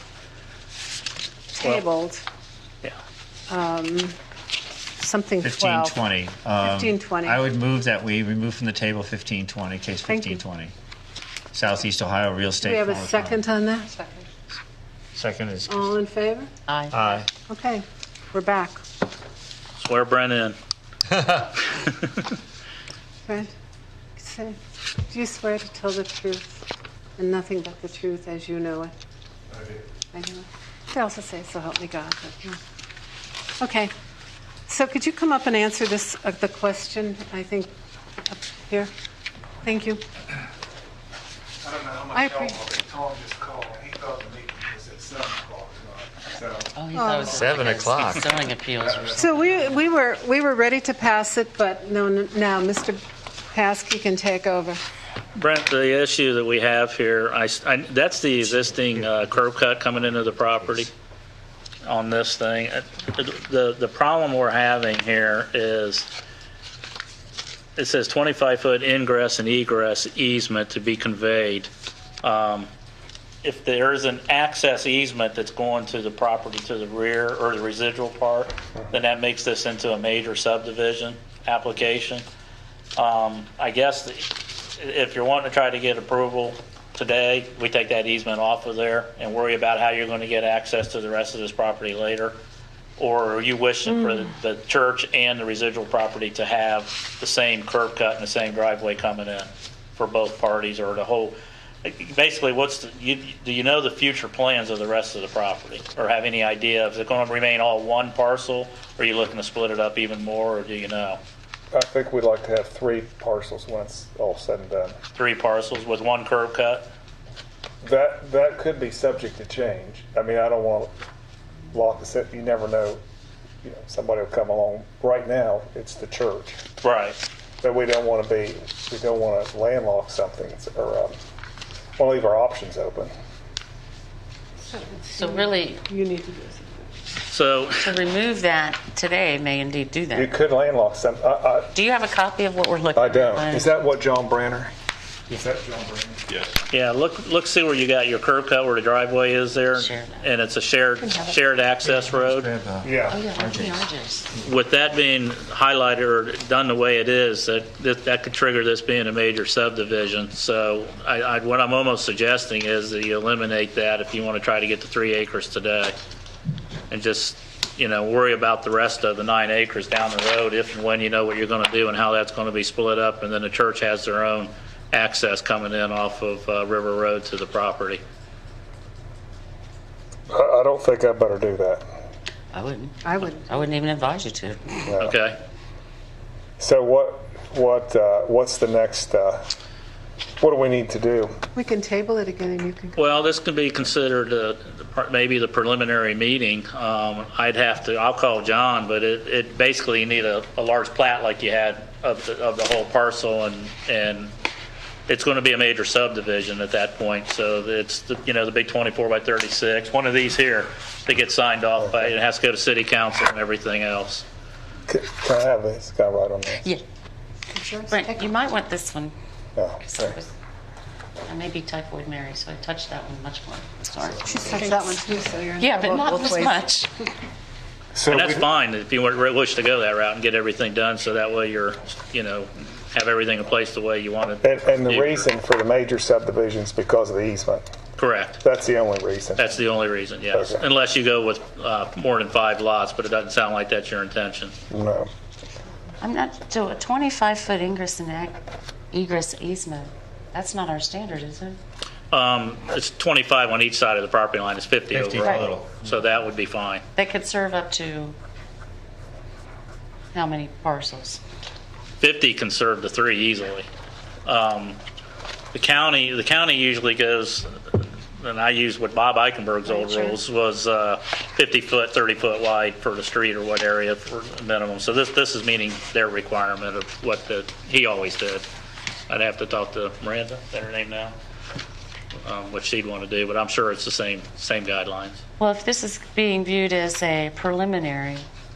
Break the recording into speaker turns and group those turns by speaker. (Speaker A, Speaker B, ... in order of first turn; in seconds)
Speaker A: 1.5-2.2, 3.5-4.1, 5.0-6.0, 6.6-7.5, 10.0-10.4, 12.6-14.2, 15.7-16.5, 17.5-18.8, 23.2-23.5, 24.2-24.6, 25.1-26.6, 27.2-28.9, 30.1-32.6, 33.6-33.9, 34.7-37.7, 38.3-38.9, 39.6-40.0, 42.1-42.5, 46.9-47.4, 49.1-54.8, 134.6-136.9, 183.0-183.6, 191.5-193.3, 217.5-218.3, 224.3-226.6
Speaker B: 5.4-10.7, 11.5-13.4, 15.1-15.9, 16.9-17.3, 21.1-21.5, 47.3-48.2, 58.5-59.2, 151.8-153.9, 254.9-255.9
Speaker C: 16.7-17.2, 46.7-49.8, 135.2-135.8, 137.8-140.3, 141.7-143.7, 149.7-150.3, 153.1-154.3, 182.5-184.9, 217.9-219.1, 219.8-220.3, 221.2-224.8, 225.6-226.9, 246.0-248.4, 248.9-251.6, 256.9-258.1, 260.1-261.2, 285.4-288.3
Speaker D: 19.8-20.6, 21.8-22.1, 55.3-60.9, 61.8-66.1, 67.8-71.7, 72.2-72.7, 73.4-82.2, 83.0-92.3, 93.0-111.2, 115.2-116.9, 126.8-127.2, 137.3-137.9, 146.7-152.5, 154.4-165.9, 166.9-178.0, 185.0-185.4, 192.9-204.3, 205.1-214.2, 228.1-235.3, 238.0-238.4, 239.3-244.5, 252.1-256.8, 262.0-263.7, 264.2-264.8, 265.5-278.4, 279.1-281.1, 282.2-285.2
Speaker E: 29.5-29.8, 41.6-47.5, 48.8-49.3, 111.7-115.0, 117.8-120.9, 121.7-123.0, 123.6-126.6, 127.6-131.2, 132.0-133.1, 140.1-141.7, 142.9-144.7, 145.3-146.2, 152.8-153.2, 180.3-181.8, 184.8-185.2, 186.6-189.5, 190.4-191.4, 211.8-212.1, 214.9-216.6, 219.6-220.2, 227.9-228.4, 234.4-237.7, 238.4-239.6, 240.3-240.6, 244.7-245.1